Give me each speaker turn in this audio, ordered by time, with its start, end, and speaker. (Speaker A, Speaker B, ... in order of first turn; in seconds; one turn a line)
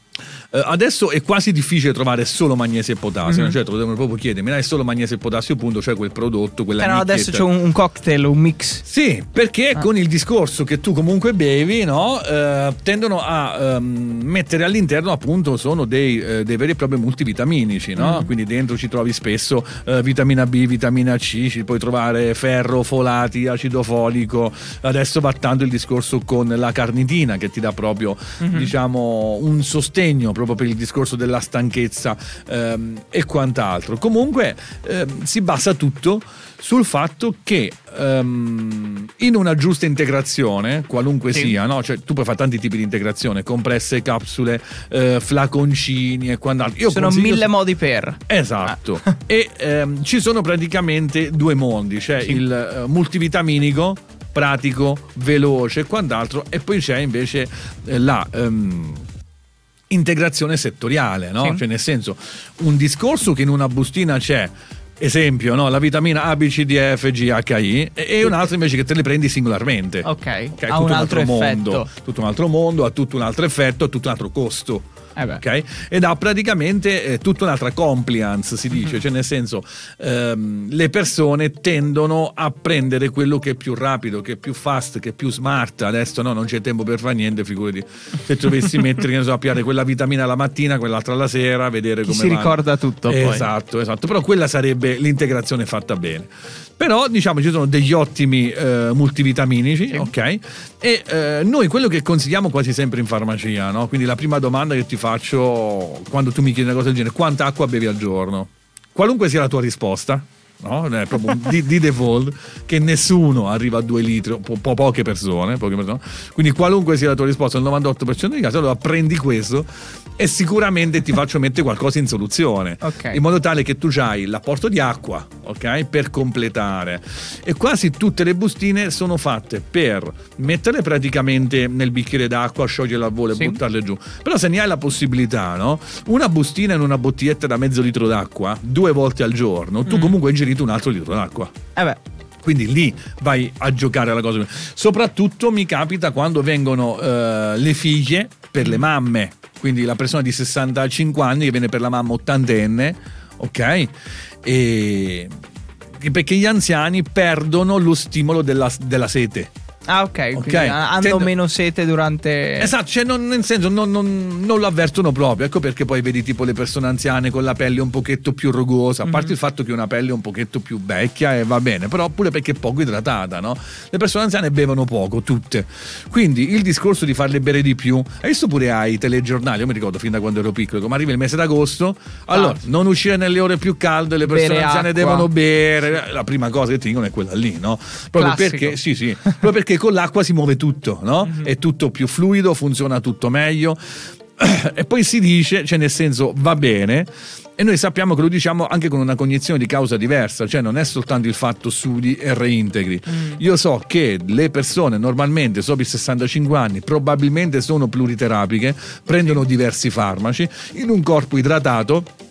Speaker A: 0.5-7.4
Speaker B: 3.2-3.5
Speaker B: 6.8-8.8
Speaker A: 8.8-47.5
Speaker B: 17.9-18.3
Speaker B: 28.4-28.7
Speaker B: 46.9-49.2
Speaker A: 48.3-59.0
Speaker A: 59.9-70.1
Speaker B: 70.0-71.9
Speaker A: 70.6-74.9
Speaker B: 75.2-75.4
Speaker A: 75.4-141.5
Speaker B: 92.0-93.5
Speaker B: 122.8-123.2
Speaker B: 133.3-133.6
Speaker B: 139.9-140.2
Speaker B: 141.8-142.0
Speaker A: 142.4-153.9
Speaker A: 154.4-155.3
Speaker A: 156.0-159.5
Speaker B: 159.9-162.7
Speaker A: 160.3-161.3
Speaker A: 162.6-193.8
Speaker B: 169.0-169.3
Speaker B: 182.3-182.6
Speaker B: 184.2-185.3
Speaker B: 188.2-189.4
Speaker A: 194.4-212.1
Speaker B: 203.1-203.4